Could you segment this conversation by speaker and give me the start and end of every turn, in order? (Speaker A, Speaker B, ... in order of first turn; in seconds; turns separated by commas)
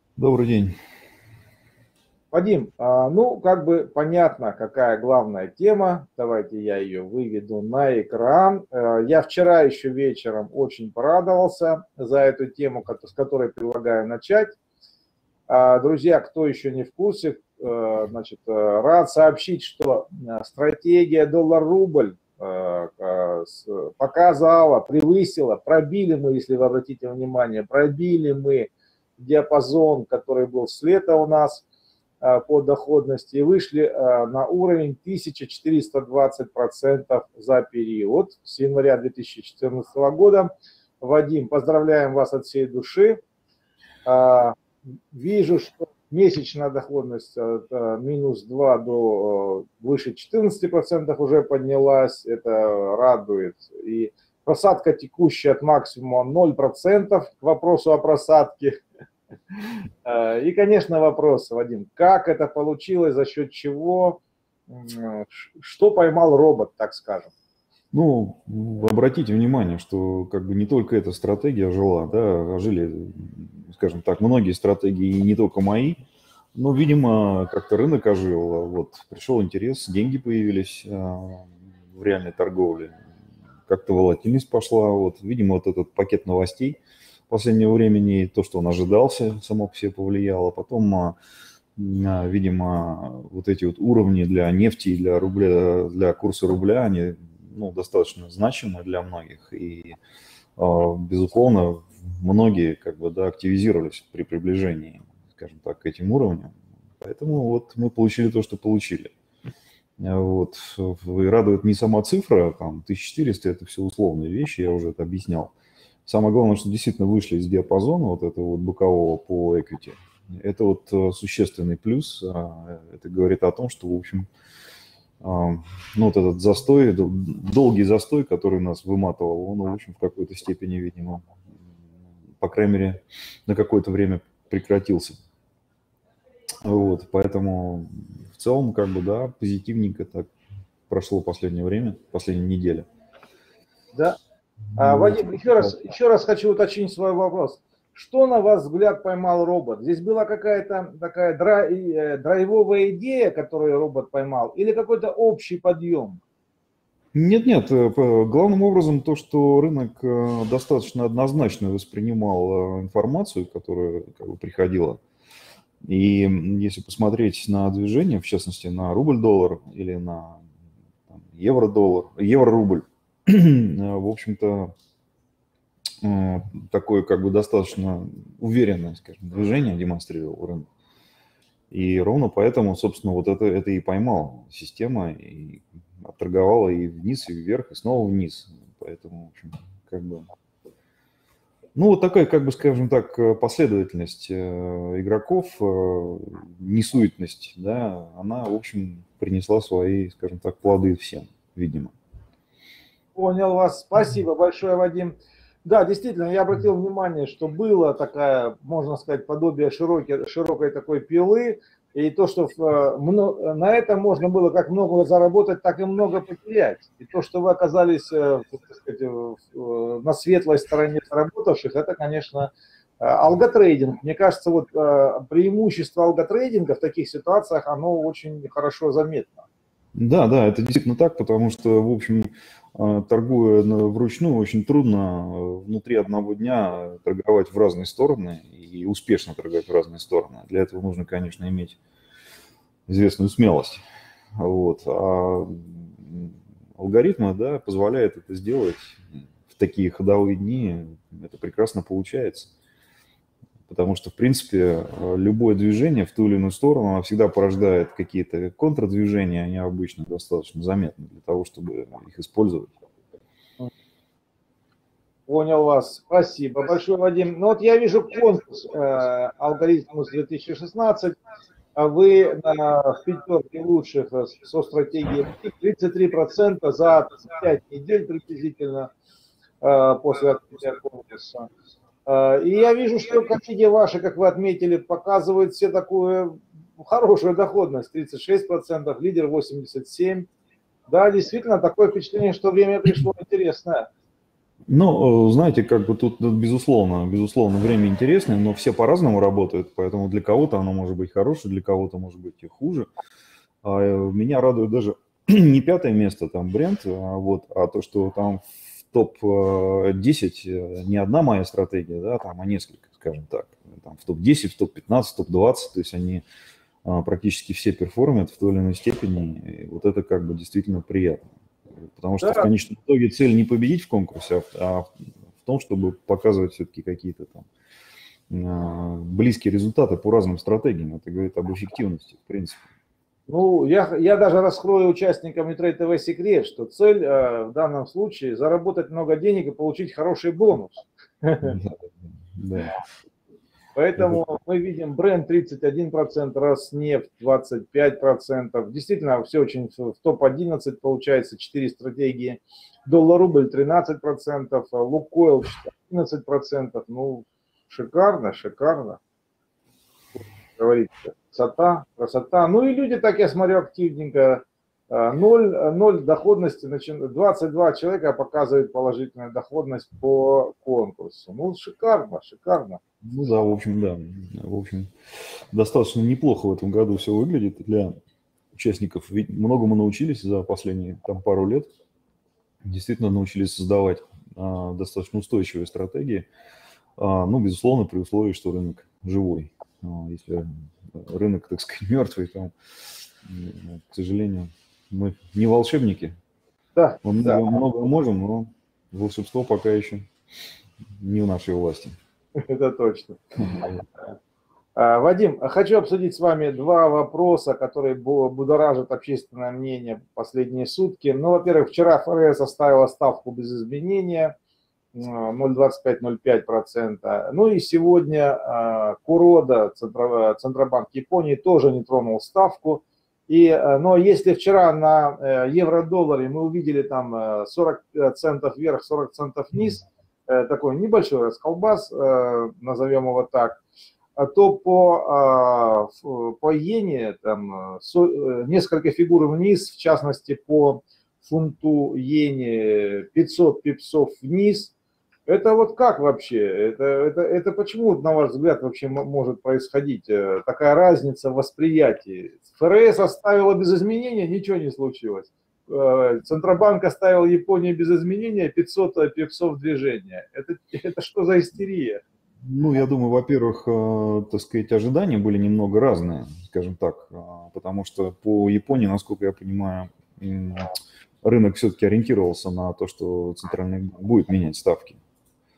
Speaker A: 0.2-0.7, Speaker B: 2.3-14.6, Speaker B: 15.5-31.6, Speaker B: 32.2-40.5, Speaker B: 41.0-43.2, Speaker B: 44.1-44.6, Speaker B: 45.1-58.8, Speaker B: 60.0-67.3, Speaker A: 67.9-76.0, Speaker A: 76.5-82.9, Speaker A: 83.7-91.2, Speaker A: 91.8-100.0, Speaker A: 100.6-109.1, Speaker A: 110.0-115.5, Speaker A: 116.1-124.3, Speaker A: 125.2-131.2, Speaker A: 132.4-135.2, Speaker A: 136.6-140.3, Speaker A: 140.9-142.9, Speaker A: 144.8-145.7, Speaker B: 144.8-156.2, Speaker A: 157.1-165.0, Speaker A: 165.9-170.4, Speaker A: 171.1-174.7, Speaker A: 176.0-180.7, Speaker A: 181.7-190.3, Speaker A: 191.8-201.9, Speaker B: 203.2-229.4, Speaker A: 229.9-241.8, Speaker A: 242.9-243.8, Speaker A: 244.4-252.5, Speaker A: 253.7-262.7, Speaker B: 265.3-271.1, Speaker B: 271.8-278.9, Speaker B: 279.6-281.5, Speaker B: 282.1-290.3, Speaker B: 290.9-293.9, Speaker A: 294.7-302.9, Speaker A: 303.6-316.2, Speaker A: 316.9-321.3, Speaker A: 321.9-324.9, Speaker B: 322.2-322.5, Speaker A: 325.4-327.5, Speaker A: 328.3-332.6, Speaker B: 333.3-341.6, Speaker A: 341.4-342.8, Speaker B: 343.8-359.0, Speaker B: 360.2-372.8, Speaker A: 373.0-374.9, Speaker A: 375.5-377.9, Speaker A: 378.5-381.7, Speaker A: 382.6-386.3, Speaker A: 387.0-392.5, Speaker A: 393.2-396.1, Speaker B: 396.8-397.5, Speaker A: 397.0-400.1, Speaker A: 401.0-401.9, Speaker B: 402.4-403.7, Speaker A: 403.5-403.8, Speaker B: 404.8-414.3, Speaker B: 414.9-433.6, Speaker B: 434.2-444.7, Speaker B: 445.3-462.0, Speaker A: 462.4-470.7, Speaker A: 471.2-475.0